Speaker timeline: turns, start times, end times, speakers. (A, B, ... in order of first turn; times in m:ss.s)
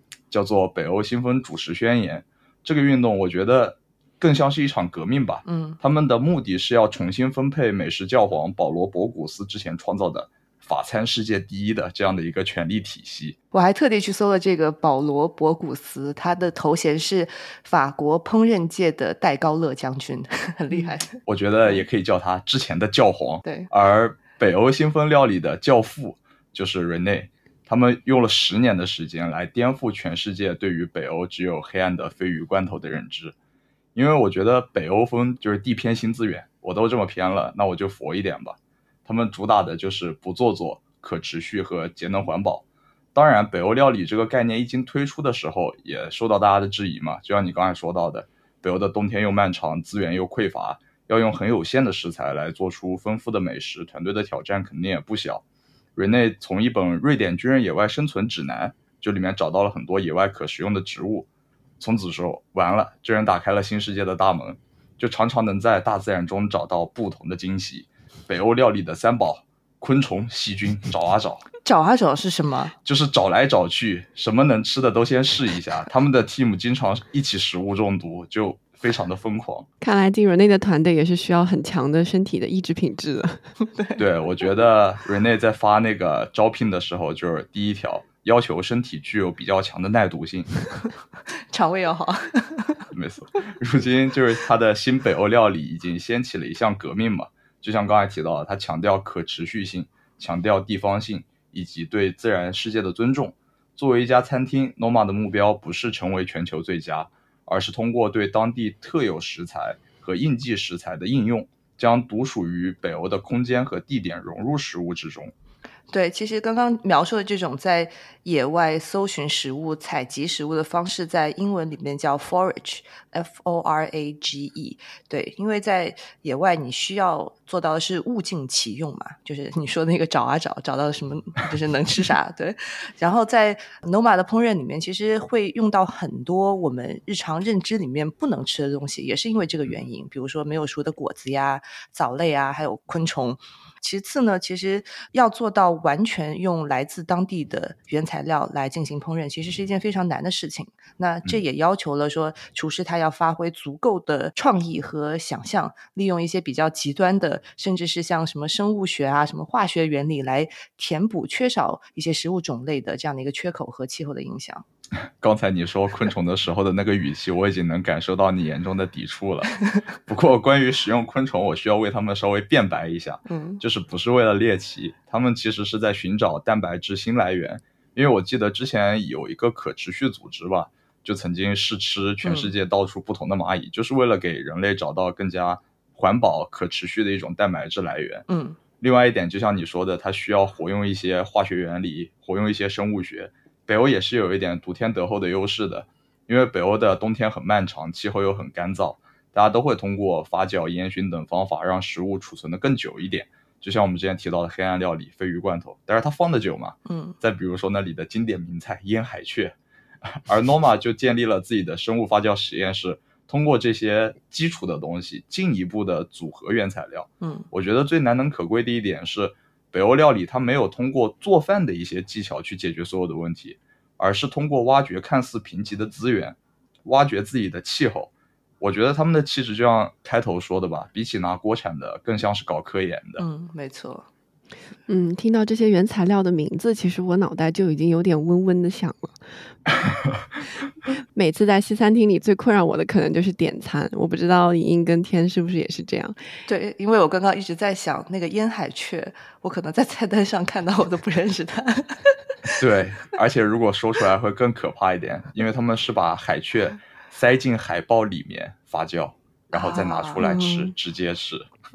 0:00.3-0:13.4 A
0:05.4-0:05.8 B
0:13.5-0:21.8 B
0:21.2-0:33.3 A
0:23.4-0:23.7 B
0:33.9-0:55.4 A
0:56.0-1:01.3 A
1:01.8-1:11.4 A
1:11.6-1:12.7 B
1:12.8-1:19.6 A
1:19.8-1:23.5 C
1:23.6-1:24.0 B
1:24.0-1:30.5 A
1:31.5-1:32.8 B
1:32.9-1:55.3 A
1:55.9-2:44.6 B
2:45.2-3:08.2 A
2:53.2-2:53.6 B
3:02.2-3:02.5 B
3:08.3-3:08.6 B
3:08.8-3:53.2 A
3:26.8-3:27.2 B
3:37.2-3:37.5 B
3:53.2-3:54.1 B
3:54.9-3:59.2 C
4:01.1-4:06.3 C
4:06.5-4:12.1 B
4:12.6-4:21.4 A
4:19.5-4:20.7 B